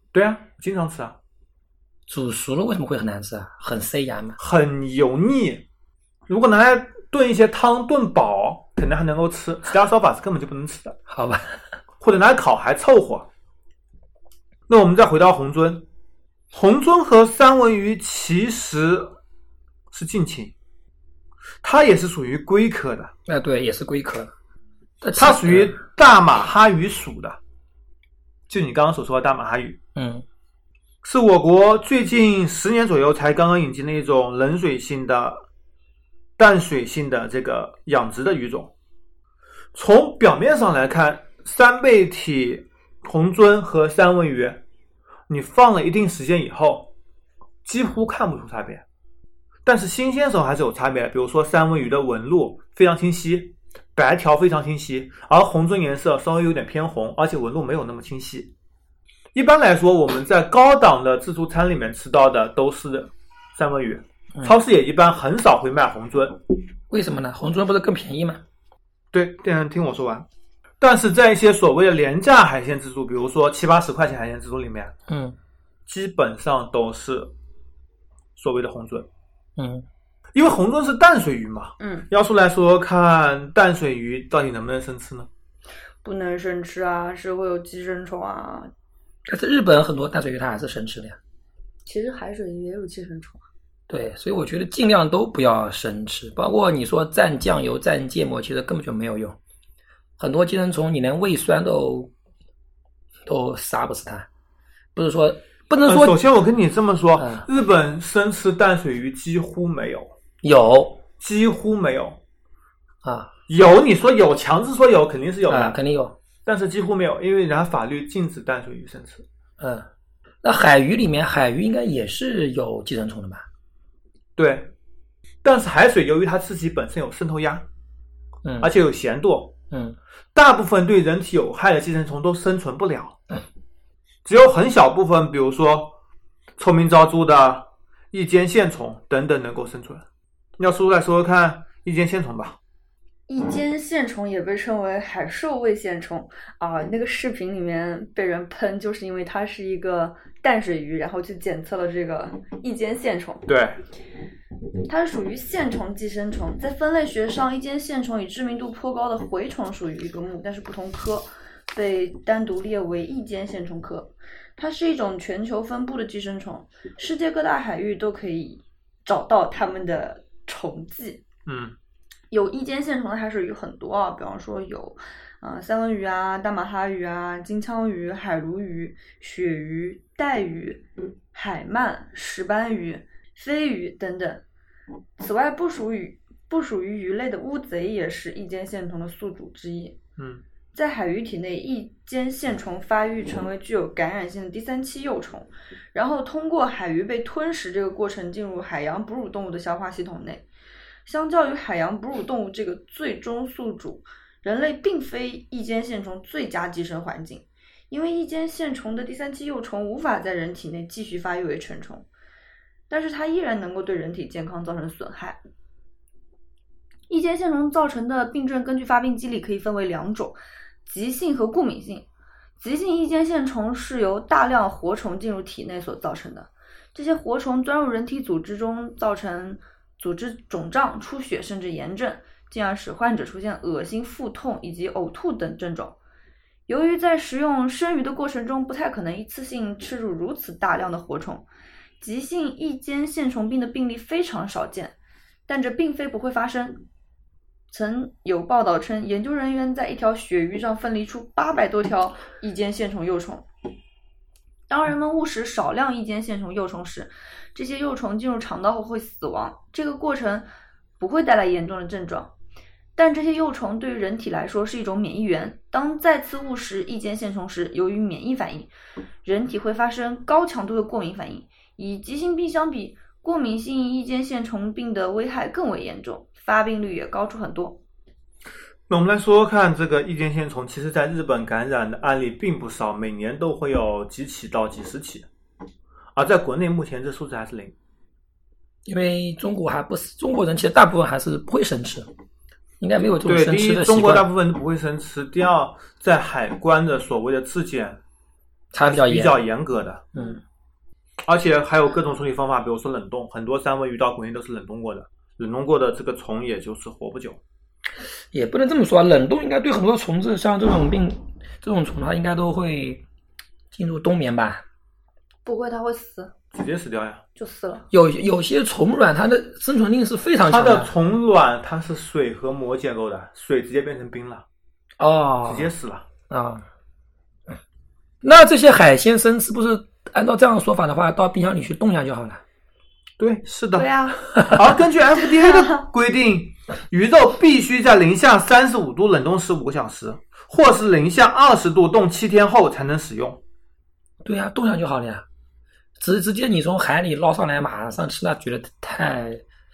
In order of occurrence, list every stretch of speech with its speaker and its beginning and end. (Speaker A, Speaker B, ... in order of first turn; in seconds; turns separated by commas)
Speaker A: 0.1-1.2, Speaker B: 2.1-4.4, Speaker A: 4.4-5.7, Speaker A: 6.3-11.0, Speaker B: 11.1-11.5, Speaker A: 12.0-13.3, Speaker A: 14.7-15.9, Speaker A: 16.5-19.2, Speaker A: 19.9-20.5, Speaker A: 21.6-23.1, Speaker B: 23.3-24.3, Speaker B: 25.0-25.8, Speaker A: 25.2-27.4, Speaker A: 28.5-29.8, Speaker B: 30.0-30.2, Speaker A: 31.0-35.4, Speaker A: 36.4-38.7, Speaker A: 39.7-44.6, Speaker A: 45.3-46.9, Speaker A: 47.6-48.8, Speaker A: 49.6-58.5, Speaker A: 59.3-66.4, Speaker B: 66.9-68.4, Speaker A: 69.1-70.3, Speaker A: 70.8-74.9, Speaker B: 75.1-75.3, Speaker A: 75.9-77.3, Speaker A: 78.4-79.1, Speaker B: 79.6-79.8, Speaker A: 80.3-85.3, Speaker C: 81.8-82.1, Speaker C: 86.0-88.7, Speaker B: 89.3-91.2, Speaker C: 91.9-93.4, Speaker B: 93.9-99.4, Speaker B: 100.2-102.1, Speaker B: 103.3-104.3, Speaker B: 105.0-106.2, Speaker A: 105.8-110.1, Speaker B: 107.2-107.5, Speaker B: 110.4-111.0, Speaker A: 111.2-112.2, Speaker B: 113.0-113.3, Speaker A: 113.5-115.8, Speaker B: 115.5-116.2, Speaker A: 116.5-119.2, Speaker B: 119.6-119.9, Speaker B: 120.4-123.4, Speaker A: 124.4-124.7, Speaker A: 125.4-127.7, Speaker B: 128.4-128.7, Speaker A: 128.6-129.6, Speaker A: 130.3-133.2, Speaker A: 134.2-135.9, Speaker A: 136.6-140.0, Speaker A: 140.6-142.6, Speaker C: 143.3-153.4, Speaker A: 153.5-153.8, Speaker C: 154.9-171.2, Speaker A: 171.5-171.8, Speaker C: 172.3-184.4, Speaker C: 185.2-190.0, Speaker A: 190.2-190.4, Speaker C: 190.7-200.5, Speaker C: 201.1-212.1, Speaker C: 212.9-215.4, Speaker C: 217.1-222.1, Speaker C: 222.6-236.0, Speaker C: 236.7-241.5, Speaker C: 242.0-244.9, Speaker C: 245.5-246.8, Speaker C: 247.7-253.5, Speaker C: 254.7-260.5, Speaker C: 261.0-262.3, Speaker C: 262.9-268.7, Speaker C: 269.2-277.8, Speaker A: 278.9-285.3, Speaker A: 286.1-287.7, Speaker B: 288.9-292.1, Speaker B: 292.8-294.3, Speaker A: 293.2-298.0, Speaker B: 298.7-299.4, Speaker A: 298.8-300.1, Speaker A: 301.3-307.4, Speaker B: 308.3-313.0, Speaker B: 313.7-314.6, Speaker C: 315.4-316.3, Speaker A: 316.5-317.2, Speaker C: 317.4-317.9, Speaker B: 317.9-320.9, Speaker A: 320.5-324.4, Speaker B: 325.0-325.7, Speaker A: 325.4-326.1, Speaker B: 326.3-326.6, Speaker B: 328.2-332.4, Speaker A: 333.2-333.9, Speaker C: 333.8-334.2, Speaker A: 334.4-343.4, Speaker C: 335.4-335.8, Speaker B: 344.2-345.2, Speaker B: 346.0-349.4